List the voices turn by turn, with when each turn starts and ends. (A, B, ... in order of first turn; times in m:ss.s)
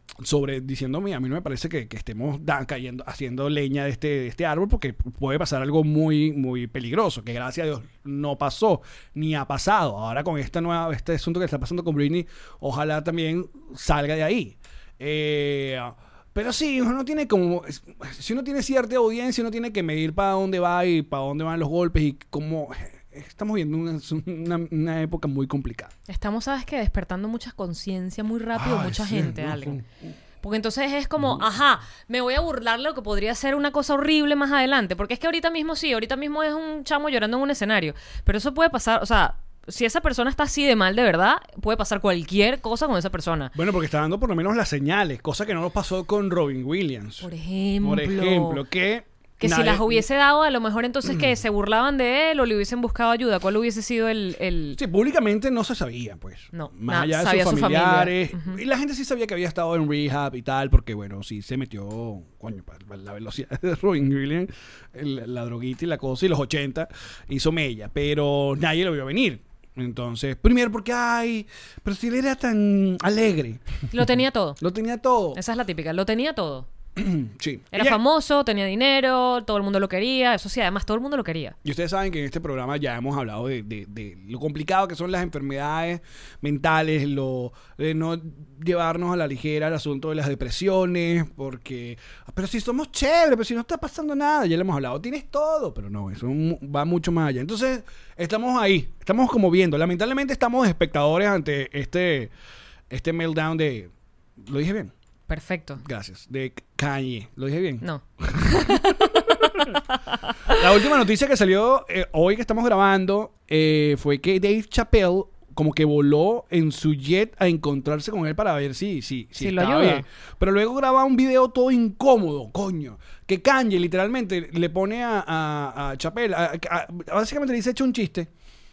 0:00.2-0:25.9 A
0:26.1-0:29.8 B
0:28.6-0:29.9 A
0:30.4-0:43.5 B
0:43.5-0:47.3 A
0:47.2-0:48.6 B
0:47.8-0:50.1 A
0:49.4-0:54.8 B
0:51.1-0:51.3 A
0:54.8-1:13.8 A
0:56.5-0:58.6 B
1:13.9-1:14.6 B
1:14.6-1:15.4 A
1:15.3-1:16.7 B
1:17.0-1:18.0 A
1:17.7-1:21.6 B
1:21.6-1:42.3 A
1:42.9-1:43.9 A
1:44.4-1:44.9 A
1:45.3-1:45.8 B
1:45.8-1:49.7 A
1:47.8-1:50.6 B
1:50.5-2:08.3 A
1:59.4-2:00.1 B